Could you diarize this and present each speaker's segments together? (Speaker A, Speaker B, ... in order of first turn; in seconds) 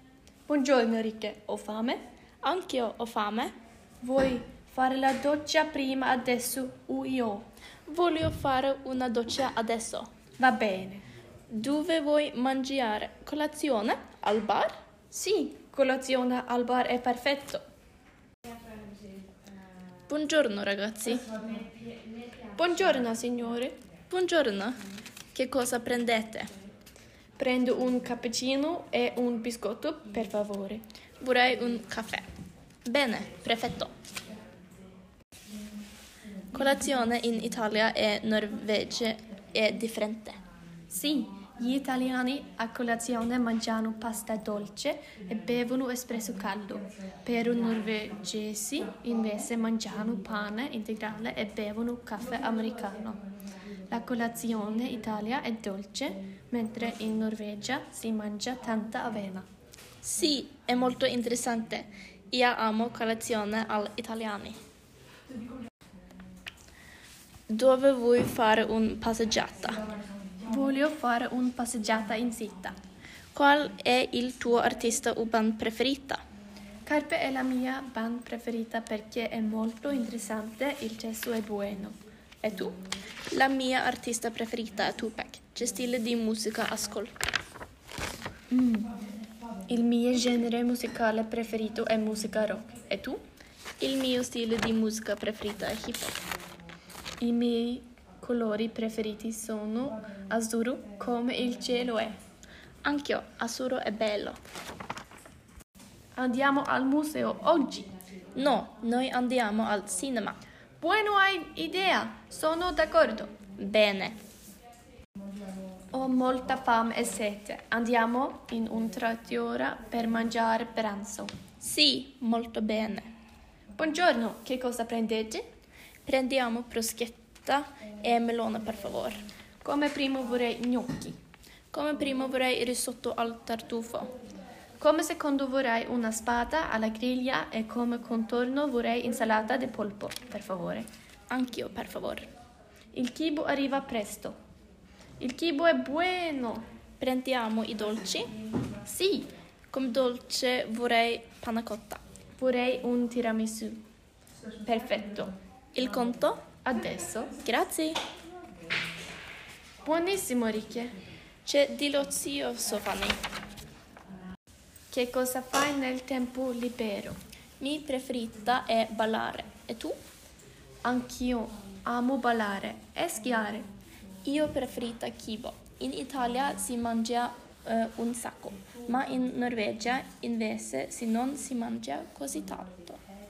Speaker A: 0.5-2.0, 4.0-7.4, 10.4-11.0, 15.1-17.6, 22.6-23.8, 27.4-30.8, 40.9-53.2, 53.9-59.5, 70.5-72.8, 76.8-82.8, 88.5-88.9, 89.7-93.2, 97.2-102.2, 106.2-107.9, 110.8-113.3, 115.9-121.3, 123.8-125.4, 129.6-131.2, 134.8-140.9, 142.9-144.3, 145.2-146.6, 148.8-149.3, 152.4-153.8, 154.6-155.3, 156.7-157.3, 159.8-161.0, 164.9-167.2, 170.8-173.7
Speaker B: 2.4-3.5, 7.9-10.1, 11.5-14.7, 20.1-21.3, 24.1-24.8, 25.3-26.5, 31.2-32.2, 32.9-33.9, 36.5-40.4, 60.0-64.6, 67.5-69.8, 73.3-76.2, 83.3-87.2, 93.8-96.2, 102.8-104.4, 108.3-110.4, 113.6-114.2, 121.6-123.1, 126.1-129.2, 131.7-134.1, 141.3-142.3, 147.0-148.3, 149.7-152.0, 155.8-156.4, 157.4-158.0, 161.4-163.2, 167.6-170.0, 174.2-183.0